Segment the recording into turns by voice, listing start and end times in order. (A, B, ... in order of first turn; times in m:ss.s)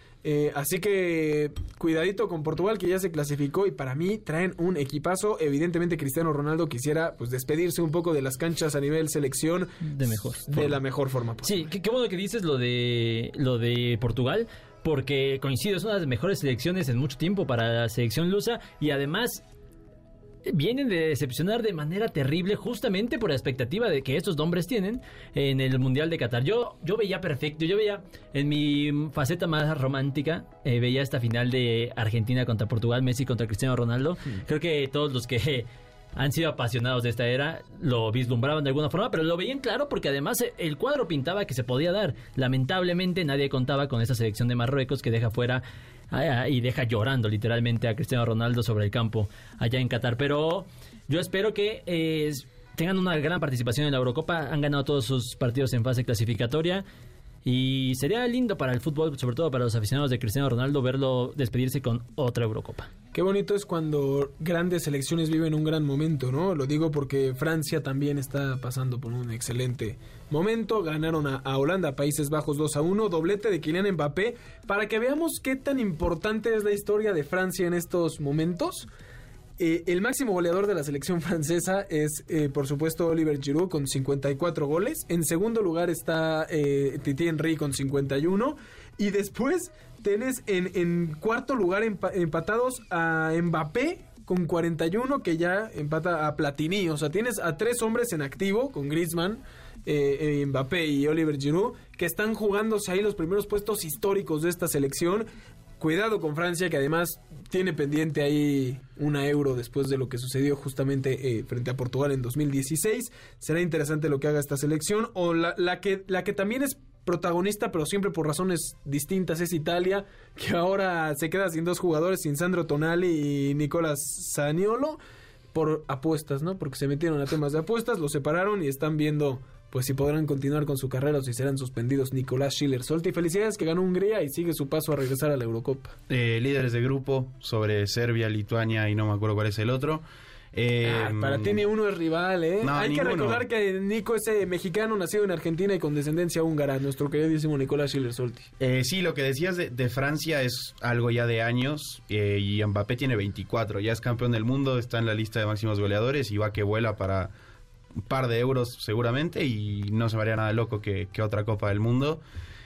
0:00.2-0:09.8 A
0:09.8-0:10.8 B
0:10.4-0:11.7 A
0:11.4-0:19.4 B
0:20.4-0:56.8 B
0:57.4-1:02.9 B
1:03.1-1:18.9 A
1:19.6-1:45.3 A
1:45.8-2:05.0 A
2:05.5-2:15.9 A
2:16.1-2:20.0 C
2:20.5-2:21.6 C
2:20.8-2:28.5 A
2:22.6-2:23.4 C
2:28.6-2:37.3 C
2:38.0-2:42.2 C